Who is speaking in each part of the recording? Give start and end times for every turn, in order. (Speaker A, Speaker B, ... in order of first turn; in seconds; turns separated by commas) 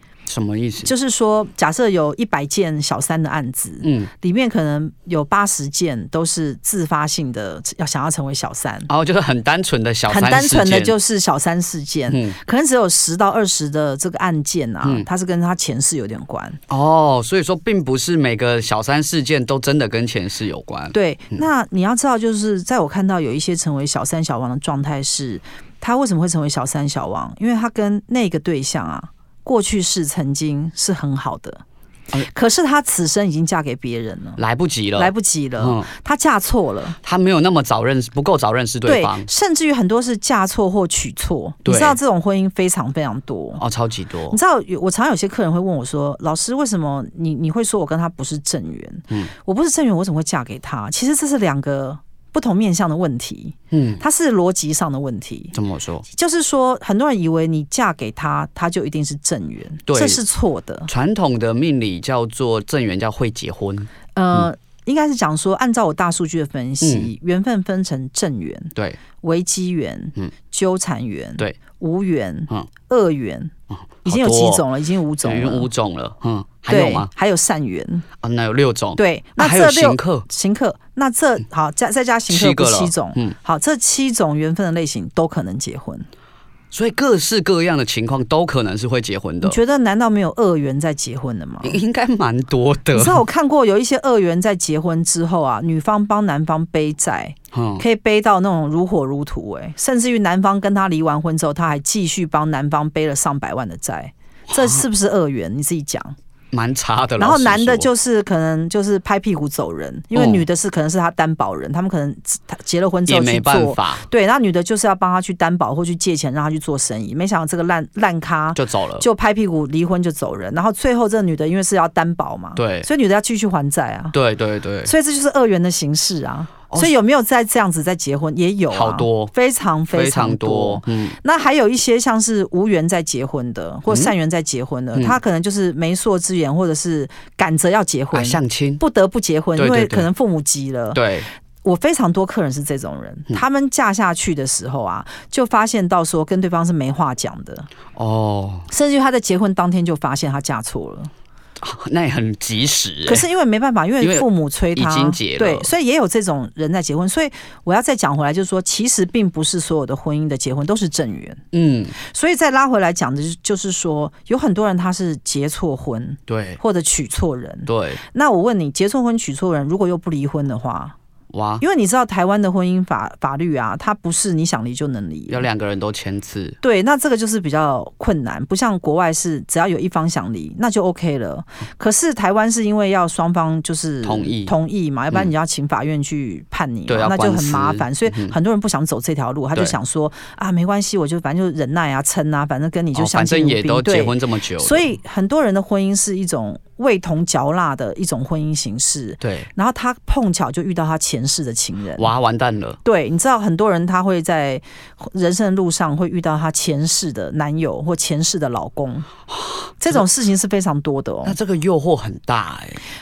Speaker A: 0.3-0.9, Speaker B: 0.8-8.9, Speaker A: 3.8-4.1, Speaker A: 8.9-10.9, Speaker B: 10.1-16.6, Speaker A: 12.1-12.4, Speaker A: 16.7-20.9, Speaker B: 20.9-31.6, Speaker B: 32.2-34.4, Speaker A: 34.4-35.9, Speaker B: 35.0-37.0, Speaker A: 37.0-39.3, Speaker B: 38.8-43.6, Speaker A: 41.6-42.0, Speaker A: 43.6-44.4, Speaker B: 44.3-55.5, Speaker A: 53.7-54.0, Speaker A: 55.5-56.0, Speaker B: 56.1-60.9, Speaker A: 59.9-60.2, Speaker A: 60.9-64.5, Speaker B: 64.2-73.5, Speaker A: 66.8-67.1, Speaker A: 68.7-69.0, Speaker A: 73.7-74.7, Speaker B: 74.0-75.7, Speaker A: 75.2-77.1, Speaker B: 76.7-78.0, Speaker A: 78.2-80.2, Speaker B: 79.0-86.1, Speaker A: 82.3-83.3, Speaker A: 86.7-89.6, Speaker B: 89.4-91.8, Speaker A: 91.6-93.2, Speaker B: 92.9-106.2, Speaker A: 97.5-97.8, Speaker A: 104.5-104.8, Speaker A: 106.5-107.9, Speaker B: 107.2-124.2, Speaker A: 110.1-110.4, Speaker A: 113.1-114.0, Speaker A: 118.5-119.0, Speaker A: 122.5-122.9, Speaker A: 124.1-124.9, Speaker B: 124.8-141.0, Speaker A: 128.7-129.3, Speaker A: 129.9-131.2, Speaker A: 138.1-138.8, Speaker A: 139.6-140.1, Speaker A: 140.9-141.3, Speaker B: 141.6-147.7, Speaker A: 147.9-148.7, Speaker B: 148.7-151.1, Speaker A: 151.6-153.2, Speaker B: 153.1-161.4, Speaker A: 154.0-155.7, Speaker A: 161.5-161.9, Speaker B: 162.0-170.9, Speaker A: 166.3-166.6, Speaker A: 167.7-168.0, Speaker A: 171.3-171.6, Speaker B: 171.6-175.5, Speaker A: 175.3-176.6, Speaker B: 176.6-202.1, Speaker A: 184.0-184.5, Speaker A: 186.9-188.3, Speaker A: 192.9-194.9, Speaker A: 199.2-199.5, Speaker A: 202.0-202.8, Speaker B: 202.8-209.1, Speaker A: 209.3-210.0, Speaker B: 209.8-211.4, Speaker A: 211.2-212.8